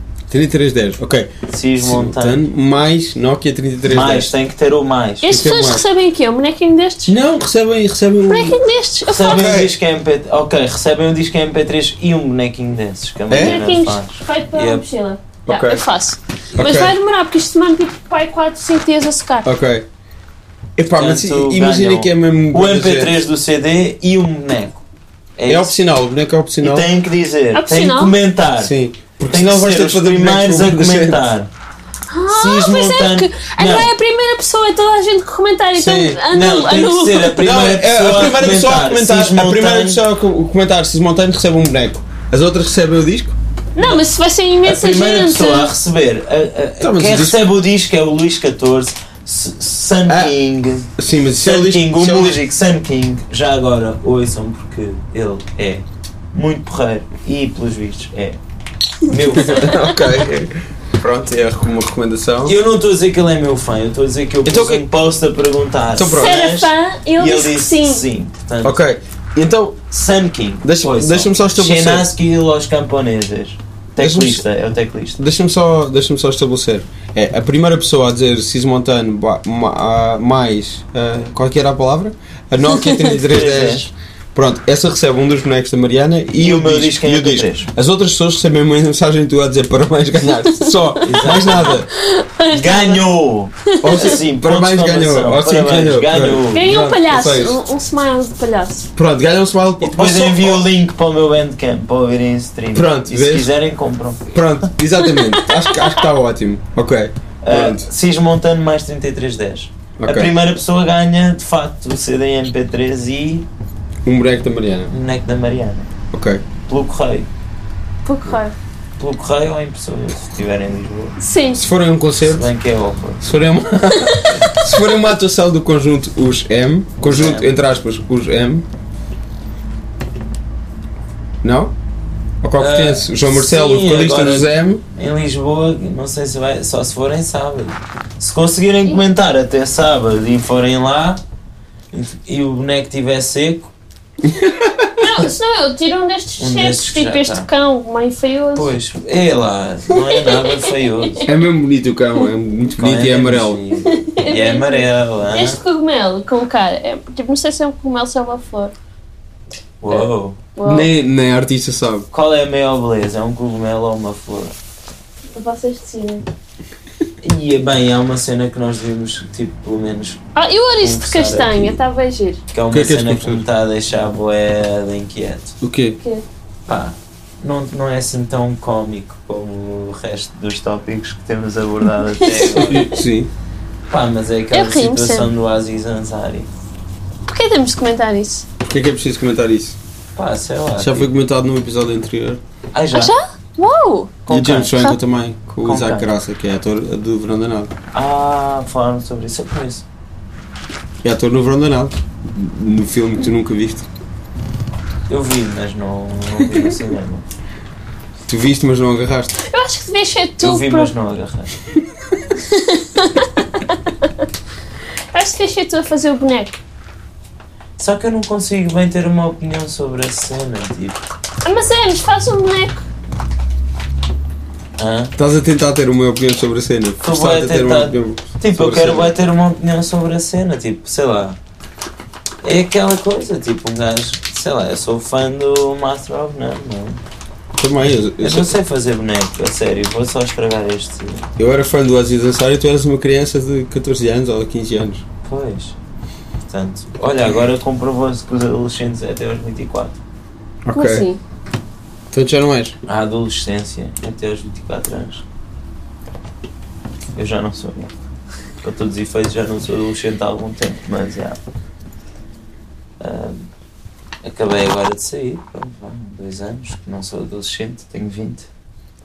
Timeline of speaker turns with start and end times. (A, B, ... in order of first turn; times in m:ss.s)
0:00.3-0:04.3 A
0:01.5-0:02.4 B
0:03.8-0:05.3 B
0:05.2-0:07.2 C
0:05.2-0:05.8 A
0:07.1-0:08.6 A
0:08.3-0:09.5 C
0:09.1-0:14.8 B
0:09.2-0:09.7 A
0:13.3-0:13.6 A
0:13.3-0:19.5 C
0:15.5-0:15.8 A
0:16.5-0:16.8 B
0:16.6-0:16.9 A
0:19.4-0:19.8 A
0:20.8-0:23.2 A
0:20.9-0:24.8 B
0:25.4-0:25.7 B
0:25.5-0:26.9 A
0:26.6-0:28.7 B
0:27.5-0:28.1 C
0:28.6-0:31.2 A
0:29.2-0:31.5 B
0:32.1-0:37.4 C
0:32.3-0:33.9 B
0:35.7-0:36.2 A
0:36.3-0:40.0 B
0:37.4-0:43.3 A
0:43.8-0:45.7 C
0:44.6-0:58.4 B
0:46.8-0:47.4 A
0:50.1-0:50.3 A
0:50.9-0:52.4 A
0:59.0-0:59.8 B
0:59.3-1:02.6 A
0:59.8-1:00.1 C
1:02.4-1:08.8 B
1:04.4-1:04.8 A
1:05.9-1:06.4 A
1:06.0-1:08.0 C
1:08.6-1:09.8 A
1:09.9-1:15.2 B
1:10.6-1:12.1 A
1:14.0-1:14.4 A
1:15.2-1:31.9 A
1:23.2-1:23.9 B
1:26.4-1:27.7 B
1:30.6-1:33.0 C
1:31.0-1:31.8 B
1:32.5-1:36.6 B
1:33.6-1:34.1 C
1:33.8-1:37.6 A
1:36.5-1:38.9 C
1:39.0-1:40.6 A
1:39.8-1:44.3 B
1:42.7-1:43.5 A
1:44.3-1:47.9 A
1:45.1-1:46.0 C
1:47.4-1:53.5 B
1:50.0-1:50.3 A
1:54.0-1:54.9 A
1:54.9-1:55.9 B
1:56.1-1:56.4 A
1:56.7-1:57.3 B
1:58.0-1:58.6 C
1:59.0-2:01.2 B
2:01.2-2:01.7 C
2:01.6-2:02.5 A
2:02.3-2:03.2 B
2:03.2-2:08.6 A
2:04.0-2:04.4 C
2:07.0-2:07.5 B
2:11.4-2:11.7 A
2:12.4-2:14.8 A
2:12.6-2:21.2 B
2:21.9-2:23.7 B
2:24.2-2:25.2 A
2:25.0-2:28.7 C
2:26.4-2:27.5 B
2:28.6-2:31.3 B
2:30.1-2:31.3 C
2:31.2-2:33.6 A
2:32.7-2:35.6 B
2:33.9-2:38.7 C
2:39.8-2:40.4 B
2:39.9-2:40.9 C
2:40.6-2:42.1 A
2:42.1-2:44.6 B
2:45.3-2:46.3 C
2:47.2-2:50.2 B
2:50.4-2:52.4 C
2:50.8-2:51.8 B
2:52.5-2:55.6 B
2:52.7-2:53.4 A
2:55.6-2:56.0 A
2:56.7-3:02.8 B
3:02.0-3:02.9 C
3:02.5-3:03.3 A
3:03.9-3:06.5 B
3:04.5-3:05.3 C
3:07.3-3:08.4 C
3:08.6-3:09.8 A
3:10.2-3:11.1 B
3:10.8-3:12.4 A
3:12.7-3:13.1 B
3:12.9-3:14.2 C
3:14.3-3:14.8 B
3:14.3-3:17.7 A
3:15.6-3:16.1 B
3:17.9-3:19.8 B
3:21.0-3:23.9 A
3:25.1-3:27.2 B
3:28.3-3:29.3 A
3:29.4-3:30.9 C
3:30.4-3:31.5 B
3:32.4-3:34.1 C
3:35.1-3:36.6 C
3:37.8-3:41.0 B
3:41.4-3:42.8 C
3:44.8-3:45.1 B
3:45.2-3:49.1 A
3:47.0-3:51.4 B
3:52.4-3:57.0 B
3:57.6-3:58.6 A
3:58.2-4:01.3 B
4:01.4-4:05.0 A
4:05.2-4:05.8 B
4:06.5-4:10.0 B
4:10.6-4:11.1 A
4:10.7-4:11.2 C
4:12.1-4:12.8 A
4:12.8-4:15.2 B
4:17.1-4:17.9 B
4:18.6-4:21.4 B
4:23.0-4:23.5 B
4:24.2-4:28.5 B